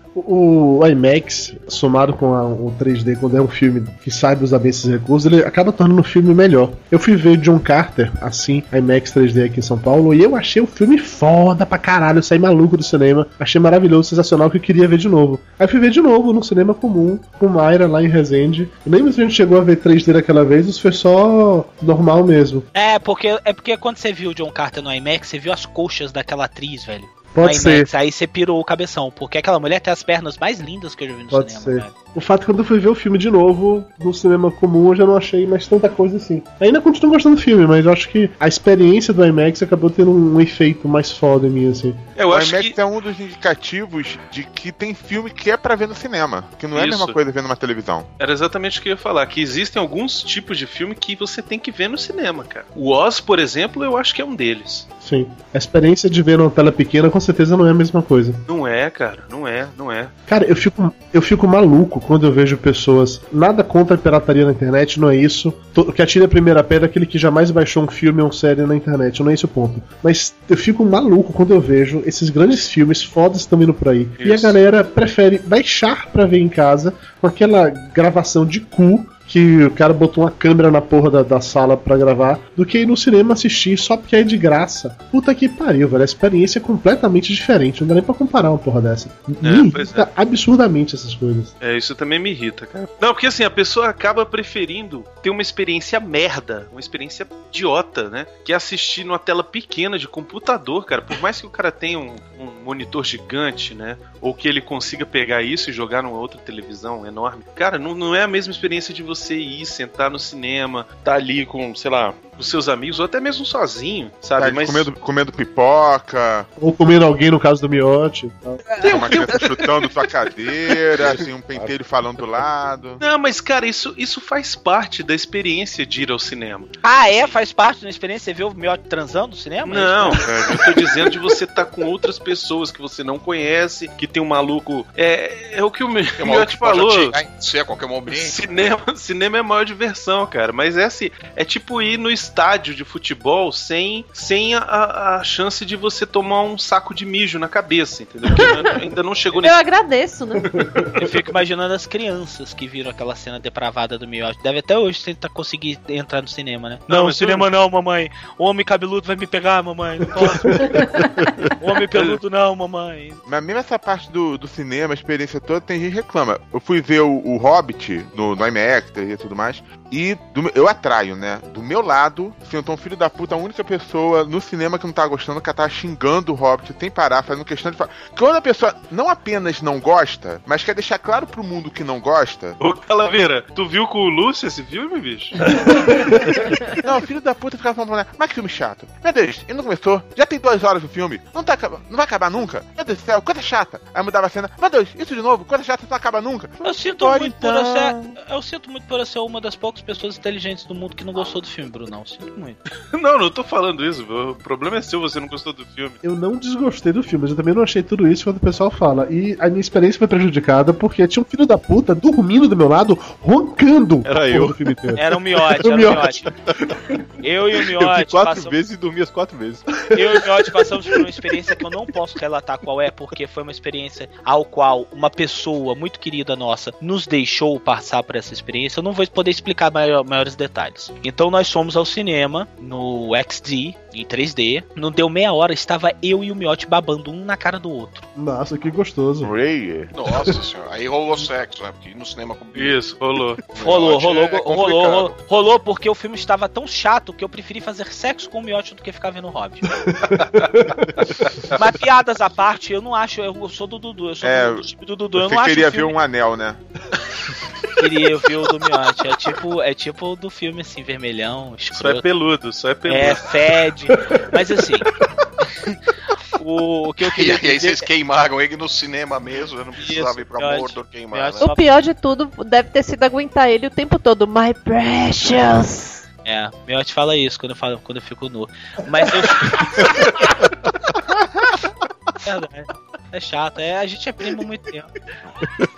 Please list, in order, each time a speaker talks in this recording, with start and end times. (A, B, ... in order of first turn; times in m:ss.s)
0:00.2-0:22.7 A
0:22.7-0:31.9 B
0:27.3-0:27.9 A
0:31.3-0:42.0 A
0:42.2-0:42.8 C
0:42.3-0:48.1 D
0:46.7-0:47.2 C
0:48.2-0:54.9 C
0:55.0-0:58.4 A
0:58.5-1:00.1 C
1:00.3-1:31.5 A
1:14.2-1:14.6 C
1:29.4-1:30.1 C
1:31.6-1:54.9 C
1:54.4-1:56.5 D
1:56.6-1:58.6 A
1:58.7-1:59.4 B
1:58.8-2:03.0 D
2:01.5-2:01.8 E
2:03.0-2:07.3 C
2:06.8-2:10.2 B
2:09.6-2:17.2 C
2:16.2-2:18.7 F
2:18.1-2:29.6 C
2:28.3-2:28.8 G
2:29.3-2:31.0 G
2:30.5-2:30.9 A
2:31.0-2:40.8 B
2:36.9-2:37.5 C
2:40.2-2:40.8 A
2:41.6-2:43.2 B
2:43.2-3:02.6 D
3:02.6-3:05.4 C
3:05.7-3:06.2 A
3:06.8-3:18.1 D
3:16.6-3:22.6 B
3:22.9-3:26.0 C
3:26.0-3:35.0 A
3:34.0-3:34.6 E
3:35.0-3:36.3 B
3:35.6-3:36.2 A
3:37.2-3:38.6 B
3:37.8-3:39.7 E
3:39.8-3:40.2 A
3:39.9-3:58.1 B
3:58.2-3:59.3 A
3:59.2-3:59.9 D
3:59.9-4:02.8 F
4:00.1-4:00.4 A
4:02.6-4:03.4 C
4:03.5-4:05.2 F
4:03.6-4:09.7 B
4:09.8-4:10.9 A
4:11.5-4:16.0 B
4:14.2-4:16.6 D
4:17.8-4:22.0 B
4:21.7-4:23.3 C
4:22.9-4:24.9 B
4:26.4-4:27.9 B
4:27.0-4:31.5 F
4:29.8-4:31.6 B
4:31.5-4:36.0 G
4:36.2-4:40.1 B
4:42.2-4:44.9 B